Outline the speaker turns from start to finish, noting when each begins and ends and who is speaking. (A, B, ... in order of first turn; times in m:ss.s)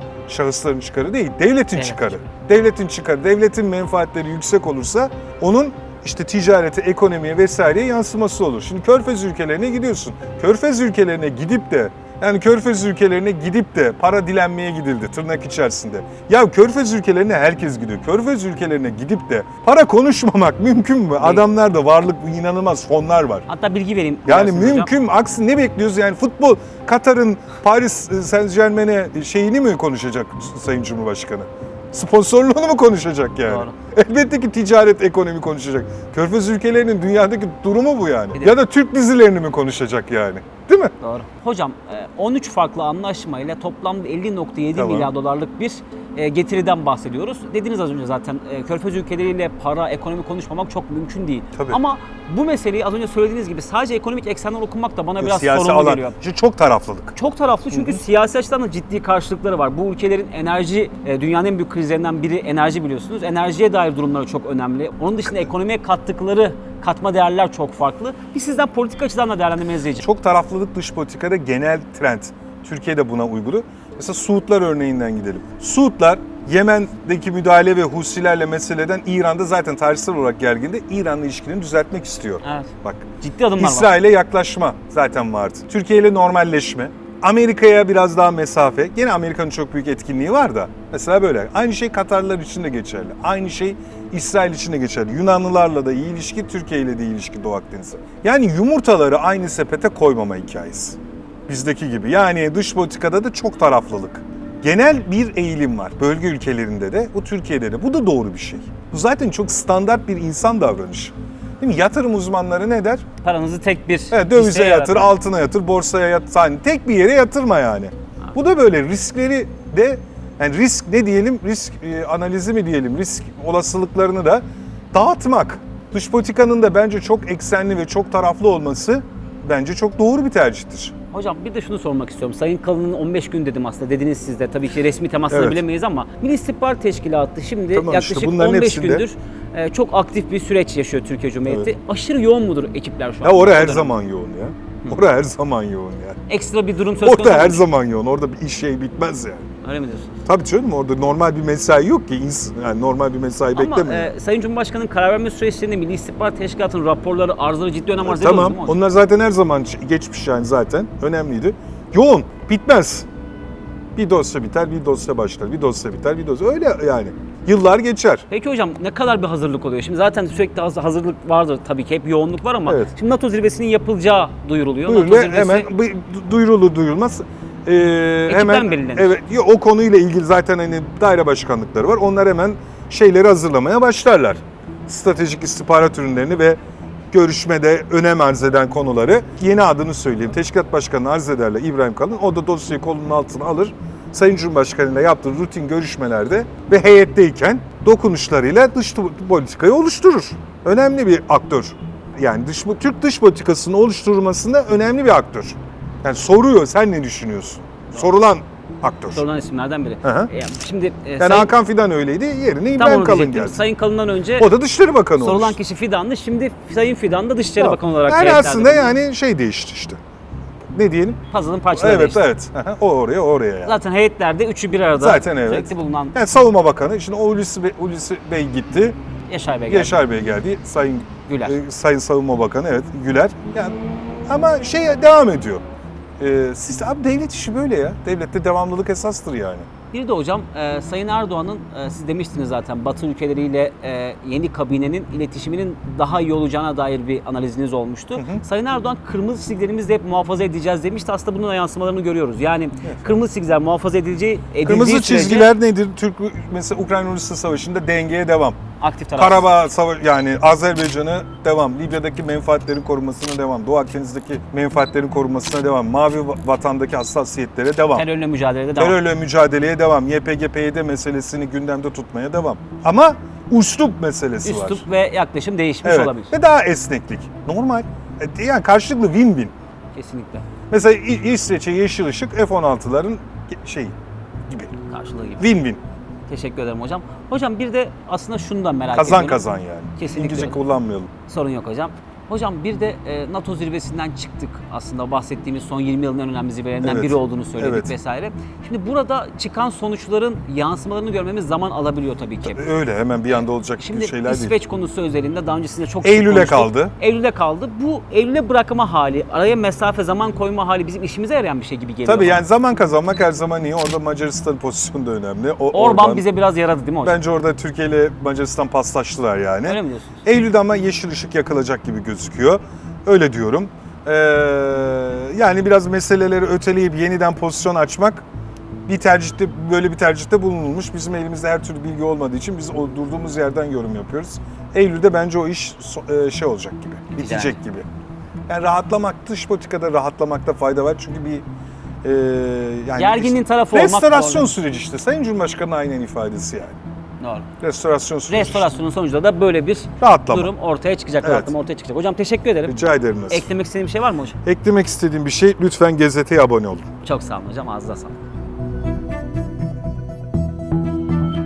0:00.3-0:23.4 A
0:01.8-0:02.1 B
0:21.2-0:21.5 B
0:23.5-0:24.9 B
0:24.3-0:40.9 A
0:33.4-0:33.7 B
0:41.0-0:56.2 B
0:44.8-0:45.1 A
0:55.2-0:57.2 A
0:57.2-1:10.0 B
0:57.7-0:58.0 A
1:10.0-1:53.0 A
1:22.4-1:23.9 B
1:53.2-1:55.2 B
1:54.1-2:11.0 A
2:11.1-2:23.9 B
2:15.3-2:15.6 A
2:17.7-2:19.0 A
2:21.5-2:21.7 A
2:23.2-2:26.2 A
2:26.3-2:27.6 B
2:27.0-2:29.4 A
2:29.6-2:30.1 B
2:30.2-2:34.1 A
2:33.5-2:38.8 B
2:38.0-2:43.1 A
2:44.0-2:48.2 A
2:48.3-2:55.7 B
2:52.7-2:52.9 A
2:54.9-3:06.6 A
2:58.3-2:59.2 B
3:07.1-3:29.2 A
3:29.1-3:31.5 B
3:30.0-3:30.3 A
3:31.2-3:33.6 A
3:32.8-3:34.5 B
3:34.4-3:35.6 A
3:35.2-3:39.0 B
3:37.6-3:40.0 A
3:40.7-3:41.2 A
3:41.3-3:42.2 B
3:41.7-3:43.8 A
3:43.7-3:46.2 B
3:45.0-3:49.0 A
3:49.3-3:50.0 B
3:49.7-3:53.8 A
3:51.3-3:51.6 B
3:54.3-3:55.6 A
3:56.2-3:59.7 A
3:59.9-4:15.5 B
4:08.2-4:08.4 A
4:14.6-4:18.6 A
4:18.8-4:19.5 B
4:19.2-4:28.0 A
4:27.9-4:29.0 B
4:28.8-4:34.8 A
4:34.4-4:36.3 B
4:35.8-4:39.5 A
4:40.0-4:40.5 B
4:40.7-4:44.0 A
4:44.5-4:44.8 A
4:44.9-4:45.5 B
4:45.4-4:45.8 A
4:46.3-4:49.4 B
4:48.9-4:51.1 A
4:50.0-4:50.6 B
4:51.3-5:02.7 B
4:56.8-4:57.9 A
5:02.4-5:04.5 A
5:03.3-5:12.4 B
5:06.0-5:06.9 A
5:12.0-5:16.2 A
5:15.7-5:17.2 B
5:17.0-5:28.2 A
5:19.6-5:20.1 B
5:28.9-5:37.9 A
5:37.1-5:37.6 B
5:38.5-5:41.4 A
5:42.0-5:46.8 A
5:43.0-5:44.5 B
5:47.2-5:47.5 B
5:47.6-5:48.7 A
5:48.3-5:52.8 B
5:50.0-5:50.5 A
5:51.2-5:51.5 A
5:52.6-5:53.5 A
5:53.3-5:54.4 B
5:54.4-5:56.9 A
5:57.0-5:58.2 B